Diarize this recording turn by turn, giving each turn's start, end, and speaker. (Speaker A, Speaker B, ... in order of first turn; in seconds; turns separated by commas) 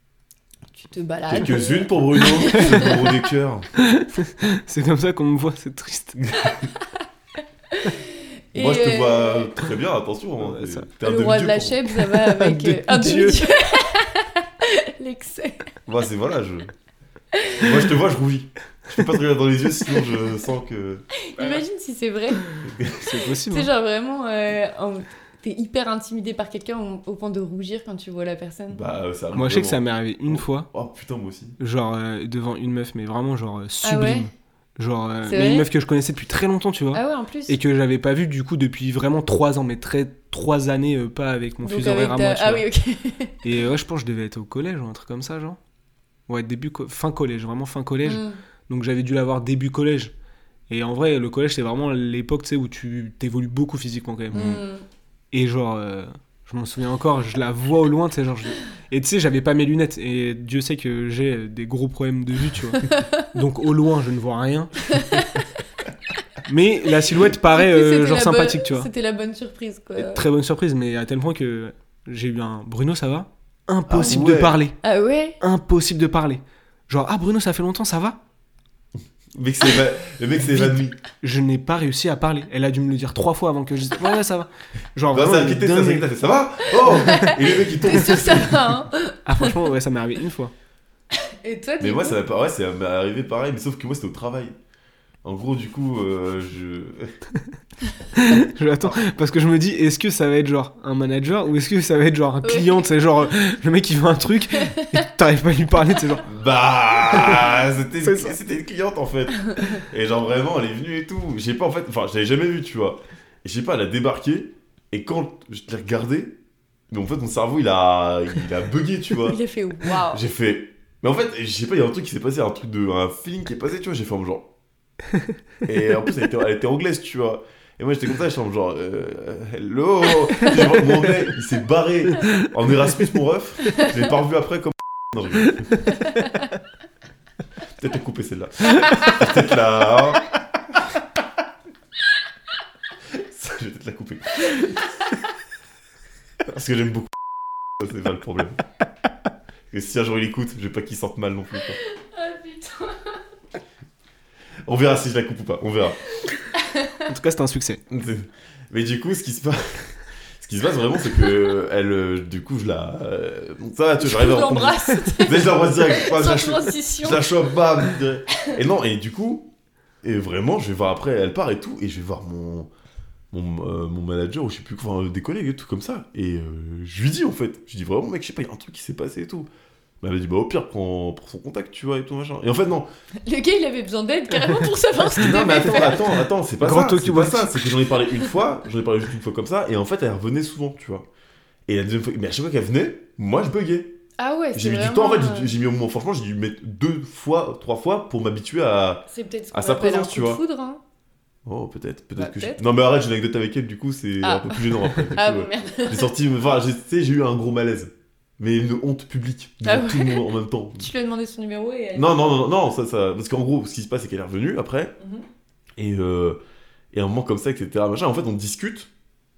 Speaker A: 0.7-3.0, Speaker B: 1.3-3.7, Speaker C: 2.5-3.1, Speaker C: 3.8-6.3, Speaker A: 6.5-6.8, Speaker A: 7.7-9.5, Speaker B: 8.5-11.9, Speaker C: 10.4-10.9, Speaker A: 11.0-15.7, Speaker C: 11.9-13.5, Speaker B: 15.9-16.7, Speaker A: 17.3-17.8, Speaker B: 17.6-21.0, Speaker A: 21.2-22.5, Speaker B: 22.6-23.1, Speaker C: 23.0-23.7, Speaker A: 23.5-28.8, Speaker B: 28.7-31.6, Speaker C: 29.3-30.7, Speaker C: 31.6-42.6, Speaker A: 33.8-34.3, Speaker A: 35.2-35.7, Speaker A: 36.9-37.6, Speaker A: 41.6-43.4, Speaker C: 43.4-45.6, Speaker C: 46.3-50.1, Speaker A: 48.0-48.4, Speaker C: 50.7-54.6, Speaker A: 54.3-54.8, Speaker C: 55.3-65.3, Speaker A: 62.8-63.2, Speaker A: 64.9-65.5, Speaker C: 66.4-68.9, Speaker A: 67.5-70.2, Speaker C: 70.0-74.8, Speaker B: 73.9-74.6, Speaker A: 74.8-75.4, Speaker C: 75.4-78.2, Speaker B: 79.3-81.0, Speaker C: 80.6-86.1, Speaker B: 85.1-88.6, Speaker A: 86.8-89.6, Speaker C: 89.2-90.5, Speaker A: 91.4-92.2, Speaker B: 91.8-94.5, Speaker B: 95.2-97.1, Speaker C: 98.2-106.3, Speaker A: 102.4-102.8, Speaker A: 104.7-105.0, Speaker B: 106.2-116.3, Speaker C: 107.0-108.4, Speaker B: 116.9-119.4, Speaker A: 119.2-120.2, Speaker B: 119.9-124.5, Speaker B: 125.7-135.9, Speaker B: 137.7-140.2, Speaker B: 143.1-144.8, Speaker B: 146.4-148.6, Speaker B: 149.7-151.8, Speaker A: 151.8-153.2, Speaker B: 154.7-156.0, Speaker A: 156.5-157.0, Speaker C: 157.0-157.8, Speaker B: 157.9-169.5, Speaker A: 164.0-167.2, Speaker B: 170.0-172.7, Speaker B: 173.3-179.5, Speaker B: 180.0-182.9, Speaker A: 183.2-186.0, Speaker B: 185.2-191.1, Speaker C: 185.5-186.0, Speaker C: 186.6-187.9, Speaker B: 191.7-193.9, Speaker A: 194.2-195.5, Speaker B: 194.5-200.4, Speaker A: 199.1-200.8, Speaker B: 201.4-210.9, Speaker A: 202.2-202.6, Speaker A: 204.2-206.1, Speaker A: 209.6-212.4, Speaker B: 211.9-214.9, Speaker B: 215.8-216.4, Speaker B: 216.9-218.9